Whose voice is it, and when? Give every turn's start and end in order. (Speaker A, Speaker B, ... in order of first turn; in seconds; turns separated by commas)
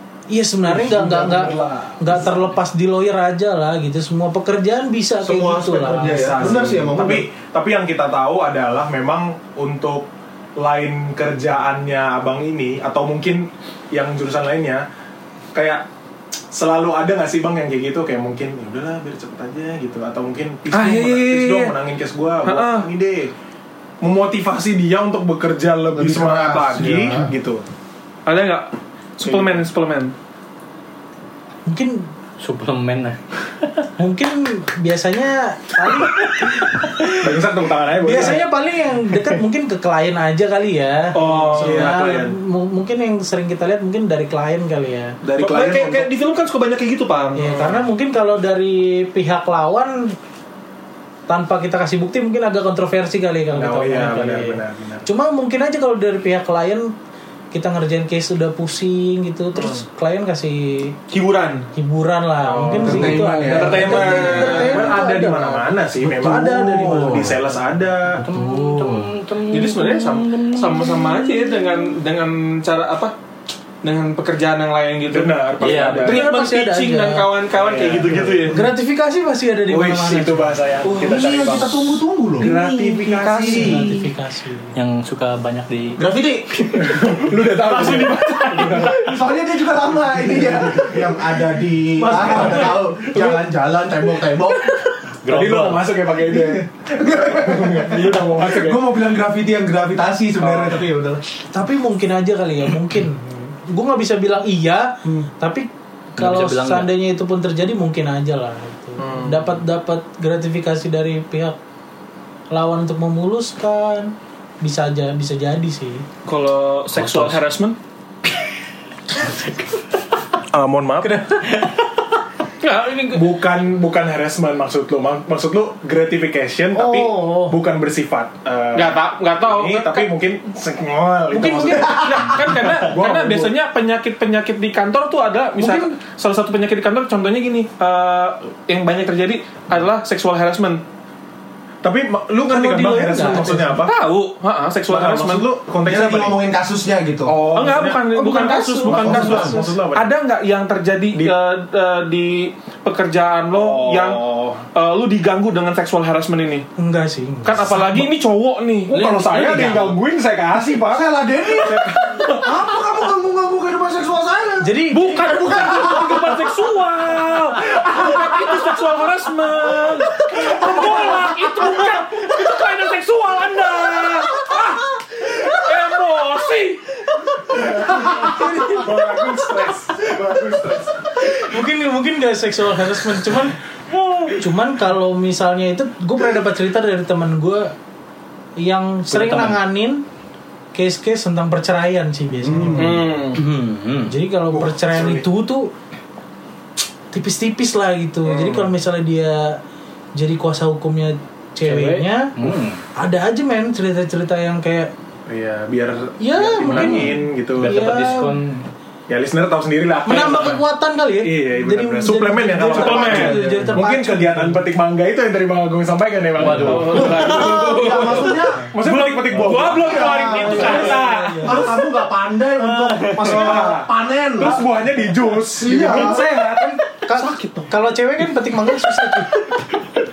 Speaker A: 0.3-6.8, Speaker B: 0.7-2.5, Speaker C: 0.9-1.6, Speaker C: 5.2-7.2, Speaker B: 6.0-14.8, Speaker B: 15.5-15.8, Speaker B: 16.5-23.3, Speaker D: 20.7-21.7, Speaker D: 22.4-22.9, Speaker B: 24.0-27.6, Speaker C: 25.9-27.3, Speaker D: 28.2-28.7, Speaker D: 29.2-30.1, Speaker B: 29.2-29.6, Speaker A: 31.6-32.1, Speaker E: 32.4-33.7, Speaker A: 34.0-37.1, Speaker E: 35.9-37.1, Speaker B: 37.2-38.5, Speaker A: 38.0-45.1, Speaker D: 41.1-42.0, Speaker B: 41.2-42.4, Speaker B: 45.2-46.1, Speaker D: 45.4-47.5, Speaker A: 47.4-50.1, Speaker B: 47.4-47.9, Speaker A: 51.3-56.9, Speaker B: 53.5-55.0, Speaker A: 57.5-61.0, Speaker D: 61.1-61.7, Speaker A: 61.7-67.3, Speaker B: 62.4-68.2, Speaker C: 62.8-64.6, Speaker D: 63.4-64.9, Speaker C: 66.0-67.4, Speaker C: 68.1-69.1, Speaker E: 68.2-71.4, Speaker D: 69.5-73.1, Speaker D: 73.8-78.6, Speaker B: 75.1-76.2, Speaker E: 75.6-76.1, Speaker A: 76.0-77.3, Speaker B: 77.5-78.7, Speaker A: 78.5-80.6, Speaker B: 79.7-83.9, Speaker D: 80.8-81.7, Speaker C: 80.9-82.5, Speaker D: 82.4-84.0, Speaker A: 83.4-84.8, Speaker E: 84.7-86.0, Speaker C: 86.0-94.9, Speaker B: 86.7-89.2, Speaker D: 87.8-88.8, Speaker B: 90.1-91.2, Speaker A: 92.0-92.8, Speaker B: 92.0-93.4, Speaker E: 95.2-95.9, Speaker B: 95.3-99.1, Speaker C: 96.2-101.2, Speaker B: 100.4-100.7, Speaker A: 101.5-111.6, Speaker E: 106.2-106.9, Speaker B: 109.0-109.5, Speaker A: 112.5-116.0, Speaker D: 116.2-117.8, Speaker E: 116.9-117.4, Speaker B: 120.5-121.2, Speaker D: 122.6-123.2, Speaker B: 123.1-133.5, Speaker A: 126.7-127.6, Speaker D: 128.7-130.1, Speaker A: 131.3-132.1, Speaker D: 131.7-140.8, Speaker A: 135.6-135.9, Speaker B: 141.8-143.9, Speaker A: 142.5-143.8, Speaker D: 143.8-145.4, Speaker B: 144.9-146.4, Speaker C: 145.8-147.4, Speaker B: 147.2-148.1, Speaker D: 147.5-156.7, Speaker A: 147.9-149.7, Speaker B: 148.8-150.1, Speaker C: 148.9-149.6, Speaker B: 153.5-154.6, Speaker A: 156.8-158.1, Speaker D: 157.4-159.7, Speaker B: 158.9-162.5, Speaker E: 158.9-159.9, Speaker C: 160.7-166.4, Speaker A: 164.6-166.0, Speaker D: 164.9-177.0, Speaker B: 177.5-181.1, Speaker A: 178.1-178.8, Speaker A: 181.4-183.6, Speaker A: 184.2-187.7, Speaker A: 188.6-190.0, Speaker E: 189.1-189.6, Speaker A: 190.7-193.1, Speaker C: 192.4-193.0, Speaker B: 192.7-193.0, Speaker D: 192.7-193.4, Speaker E: 193.3-194.2, Speaker A: 194.1-195.7, Speaker B: 194.5-195.2, Speaker A: 197.1-199.6, Speaker B: 198.2-198.7, Speaker A: 200.2-202.3, Speaker E: 201.6-202.8, Speaker A: 203.0-204.9, Speaker B: 205.3-207.9, Speaker A: 206.2-208.4, Speaker E: 206.6-208.7, Speaker B: 209.1-210.6, Speaker A: 210.1-214.7, Speaker B: 211.2-221.8, Speaker D: 212.7-213.4, Speaker C: 213.0-213.8, Speaker E: 216.4-217.3, Speaker D: 216.4-221.6, Speaker C: 216.8-218.7, Speaker C: 219.6-224.6, Speaker A: 220.3-221.7, Speaker B: 223.1-226.8, Speaker C: 225.3-226.2, Speaker A: 225.7-229.5, Speaker D: 227.1-227.7